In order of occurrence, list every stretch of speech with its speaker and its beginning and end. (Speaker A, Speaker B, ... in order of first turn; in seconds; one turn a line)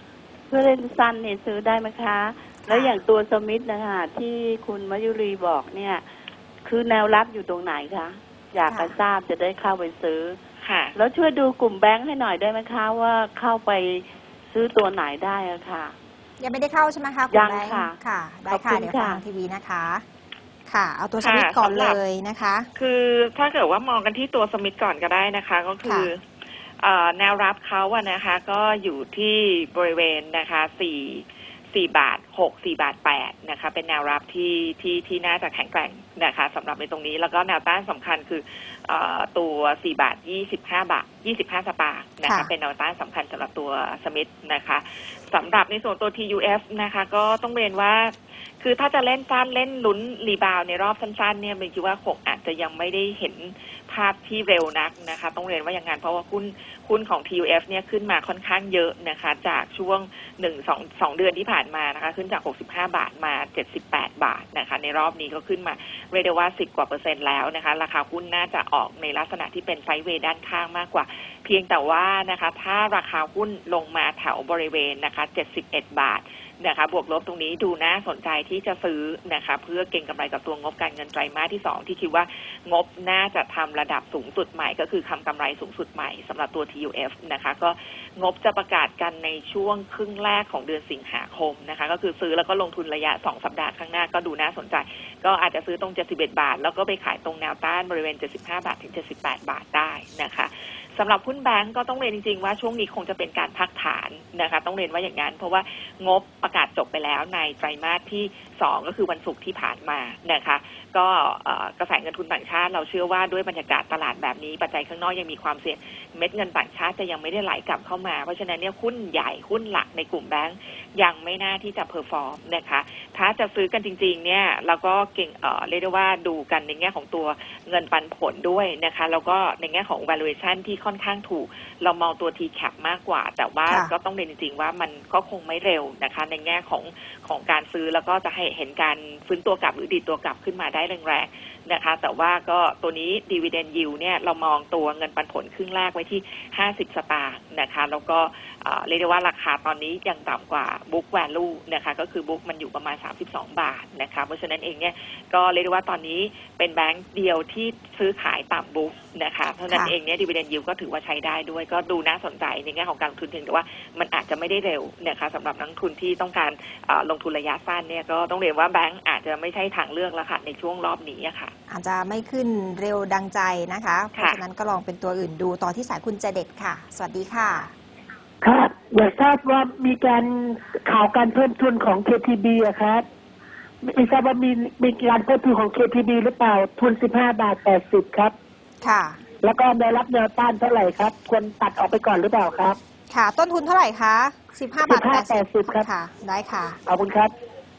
Speaker A: 0.5-6.1
Speaker B: 2.7-3.0
Speaker A: 6.6-10.4
Speaker B: 8.7-8.9
Speaker C: 10.6-11.0
Speaker A: 11.0-16.0
Speaker B: 16.4-20.0
Speaker A: 17.3-19.2
Speaker B: 20.7-22.7
Speaker C: 21.2-22.0
Speaker C: 22.8-26.2
Speaker B: 25.8-26.1
Speaker C: 26.8-171.5
Speaker B: 42.2-42.5
Speaker B: 171.7-177.7
Speaker C: 174.2-174.4
Speaker D: 178.4-183.1
Speaker D: 183.8-188.4
Speaker B: 188.8-189.2
Speaker D: 189.4-192.8
Speaker B: 193.1-196.8
Speaker D: 194.8-195.9
Speaker D: 196.9-197.3